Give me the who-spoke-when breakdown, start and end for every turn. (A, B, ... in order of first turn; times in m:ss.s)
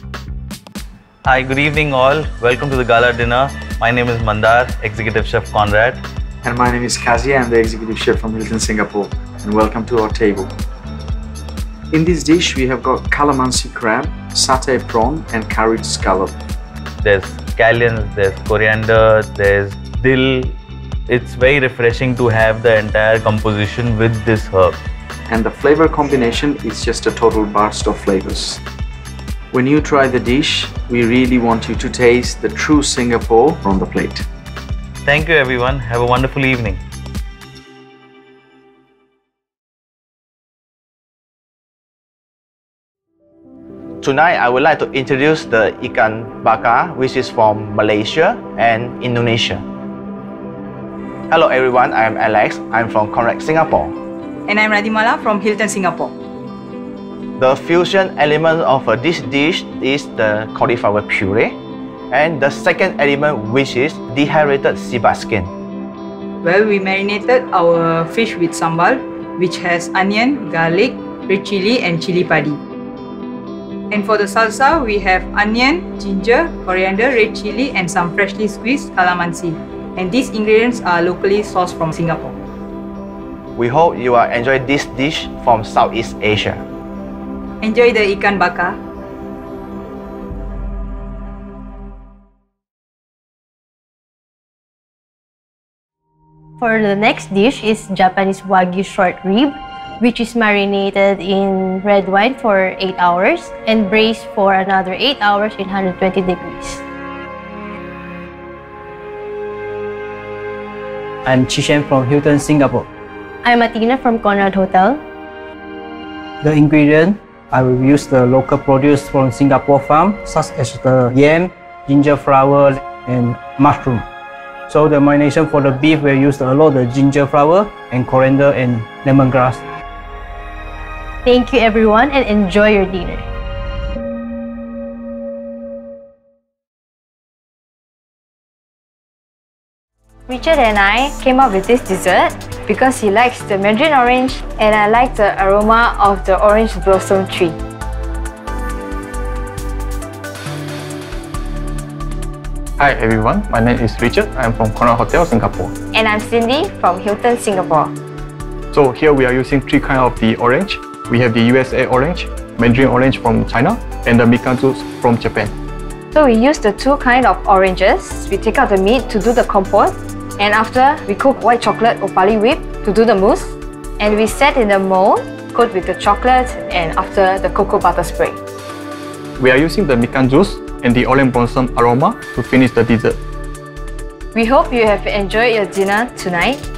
0:01.2-0:06.0 A
0:06.4-0:10.5 B
0:11.9-0:16.4 B
0:17.0-0:20.5 A
0:21.1-0:24.8 A
0:25.3-0:28.6 B
0:29.5-0:34.2 B
0:35.0-0:36.8 A
0:44.0-0:49.6 C
0:51.3-0:53.9 C
0:54.5-0:56.1 D
0:57.4-1:01.6 C
1:02.1-1:05.5 C
1:06.4-1:12.6 D
1:13.9-1:22.4 D
1:23.6-1:26.6 C
1:27.6-1:28.8 D
1:36.6-1:46.8 E
1:51.2-1:52.9 F
1:53.4-1:55.0 E
1:56.4-2:04.0 F
2:04.7-2:09.6 F
2:11.2-2:13.2 E
2:20.3-2:27.6 G
2:32.8-2:35.7 H
2:35.9-2:37.9 G
2:38.7-2:45.5 H
2:46.1-2:58.4 G
2:59.4-3:03.2 H
3:04.3-3:06.6 G